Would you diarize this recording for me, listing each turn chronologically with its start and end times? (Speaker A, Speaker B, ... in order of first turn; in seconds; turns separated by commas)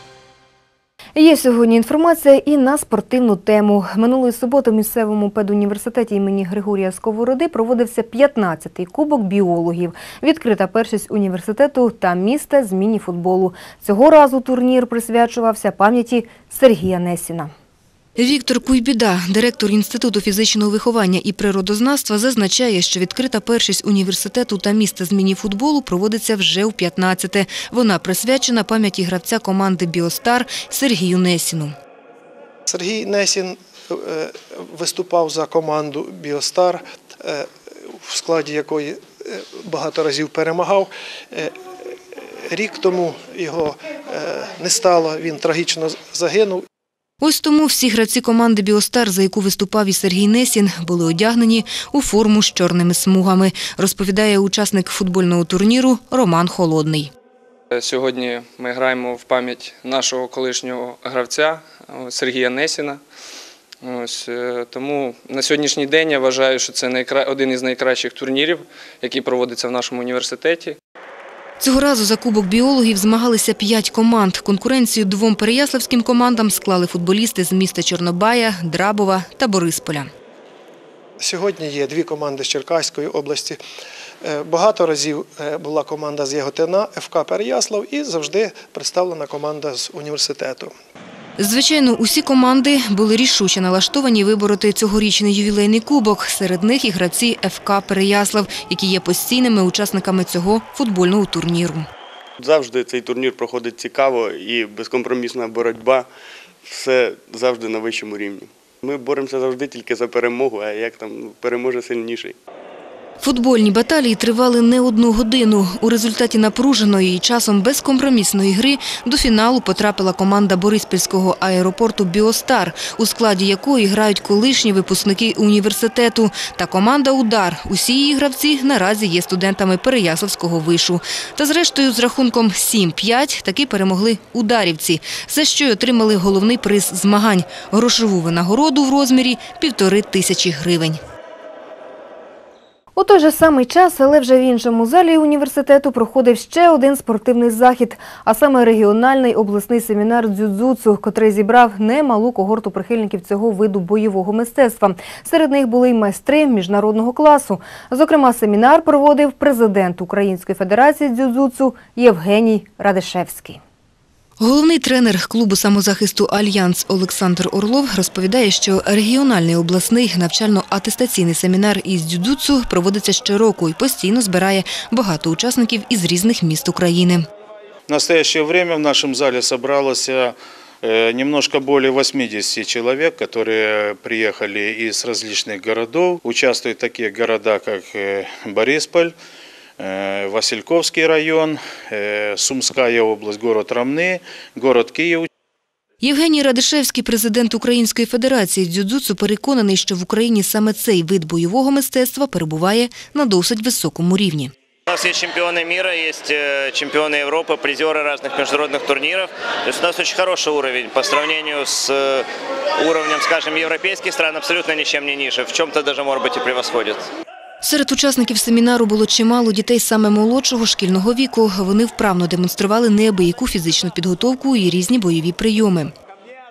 Speaker A: 1.1-17.5, Speaker B: 18.1-31.7, Speaker C: 32.6-46.6, Speaker B: 47.2-57.1, Speaker D: 57.7-63.0, Speaker D: 63.8-70.8, Speaker B: 71.6-80.1, Speaker C: 81.2-83.6, Speaker C: 84.2-90.7, Speaker B: 91.4-101.9, Speaker E: 102.4-106.1, Speaker E: 106.6-112.4, Speaker B: 113.2-141.0, Speaker A: 142.9-163.6, Speaker B: 164.4-177.2, Speaker F: 177.9-189.1, Speaker F: 189.8-195.3, Speaker B: 196.0-204.5, Speaker G: 204.8-212.2, Speaker G: 212.8-217.1, Speaker B: 217.6-225.9